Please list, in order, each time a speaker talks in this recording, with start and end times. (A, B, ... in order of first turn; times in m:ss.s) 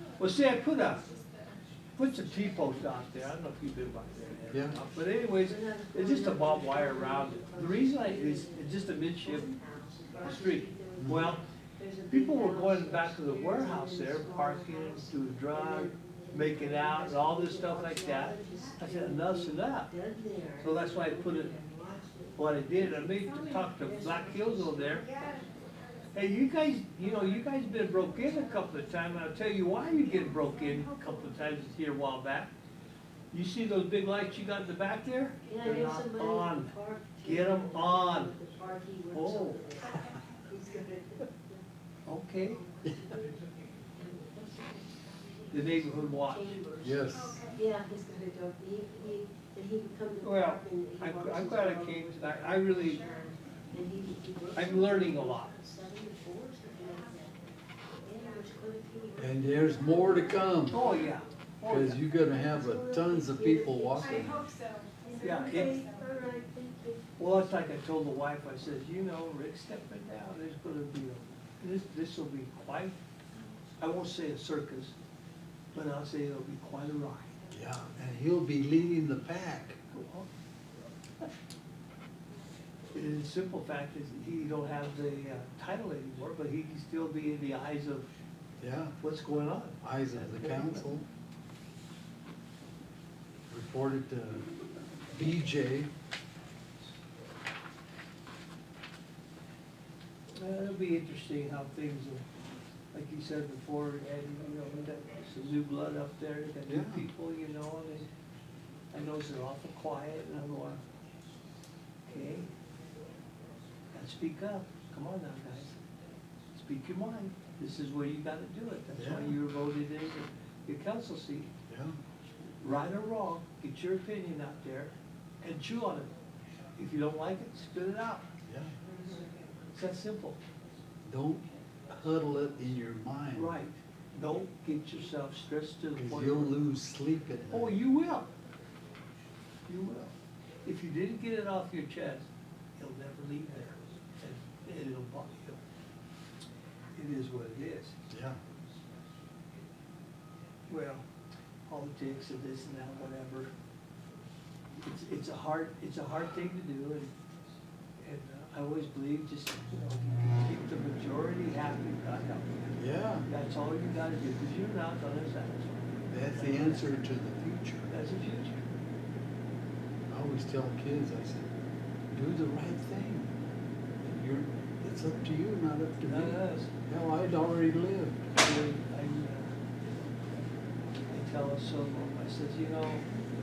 0:00.2-0:01.0 A
0:02.0-0:09.5 A
0:04.5-0:04.8 B
0:05.2-0:25.5 C
0:10.2-0:11.4 A
0:11.0-0:11.3 B
0:12.1-0:19.9 A
0:20.6-0:21.6 A
0:22.4-0:25.2 A
0:26.1-0:32.5 A
0:33.3-0:38.3 A
0:35.4-0:41.6 C
0:39.1-0:39.6 A
0:42.0-0:42.6 A
0:42.7-0:52.2 C
0:45.5-0:46.6 A
0:46.8-0:47.5 B
0:47.3-0:47.6 D
0:50.2-0:53.3 A
0:52.9-1:00.4 C
0:54.5-0:55.5 A
0:59.2-1:01.0 B
1:00.6-1:02.0 A
1:01.6-1:04.5 B
1:02.2-1:04.5 C
1:04.2-1:06.0 D
1:05.0-1:07.0 C
1:05.2-1:05.8 A
1:07.2-1:13.0 A
1:13.8-1:14.9 A
1:15.7-1:17.3 A
1:17.5-1:19.8 B
1:19.9-1:20.3 A
1:22.9-1:28.1 A
1:28.6-1:29.0 B
1:29.0-1:30.8 A
1:29.8-1:31.1 B
1:33.5-1:34.5 B
1:35.1-1:35.9 B
1:40.3-1:42.2 A
1:42.9-1:48.1 A
1:46.7-1:47.1 B
1:48.9-1:50.8 A
1:52.0-1:52.5 A
1:53.9-1:55.8 A
1:56.5-2:01.5 A
1:58.9-1:59.4 B
2:01.7-2:01.9 B
2:02.6-2:06.1 A
2:06.8-2:08.3 A
2:08.4-2:08.8 B
2:08.9-2:09.2 C
2:09.7-2:10.4 A
2:11.0-2:13.6 B
2:13.3-2:16.6 A
2:15.9-2:17.8 B
2:17.5-2:18.3 A
2:19.7-2:20.1 A
2:20.6-2:25.6 A
2:26.9-2:28.0 A
2:28.1-2:28.4 B
2:30.7-2:31.0 A
2:31.7-2:33.5 A
2:34.8-2:37.1 A
2:38.0-2:47.1 A
2:42.8-2:43.3 B
2:46.1-2:47.9 B
2:47.9-2:48.7 A
2:50.1-2:51.5 B
2:52.1-2:53.3 B
2:54.0-2:58.3 B
2:56.0-2:56.7 A
2:58.3-2:59.6 A
3:01.1-3:03.0 A